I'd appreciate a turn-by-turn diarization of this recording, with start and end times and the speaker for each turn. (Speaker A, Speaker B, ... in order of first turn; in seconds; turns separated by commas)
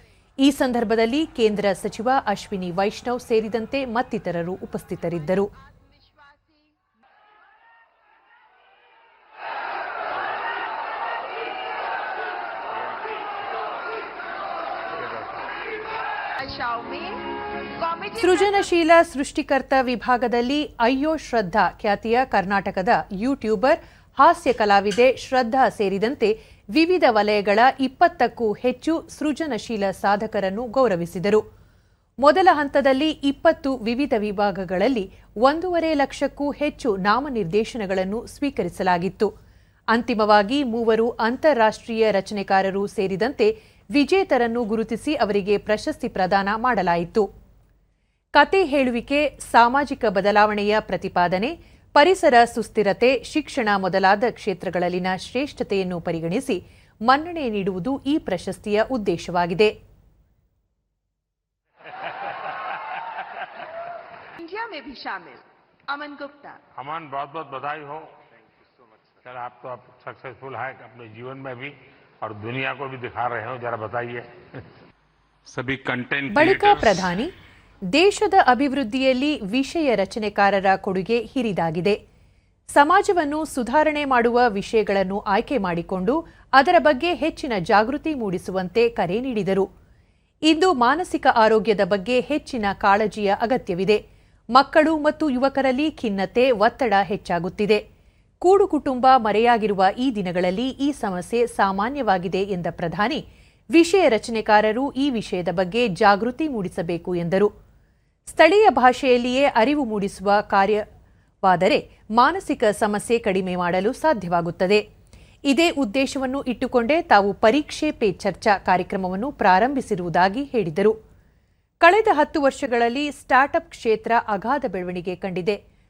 Speaker A: 0.4-5.5, Speaker B: 5.5-6.7, Speaker C: 15.1-15.3, Speaker B: 16.4-18.6, Speaker A: 18.2-31.4, Speaker A: 32.2-39.3, Speaker A: 39.9-47.3, Speaker A: 48.4-59.7, Speaker B: 64.4-66.6, Speaker C: 66.8-68.1, Speaker C: 69.2-74.5, Speaker C: 75.5-77.1, Speaker A: 76.3-77.3, Speaker A: 77.9-82.0, Speaker A: 82.7-89.7, Speaker A: 90.5-94.0, Speaker A: 94.5-97.8, Speaker A: 98.4-103.2, Speaker A: 103.7-107.5, Speaker A: 108.3-110.8, Speaker A: 111.4-114.8, Speaker A: 115.5-120.9, Speaker A: 121.8-125.6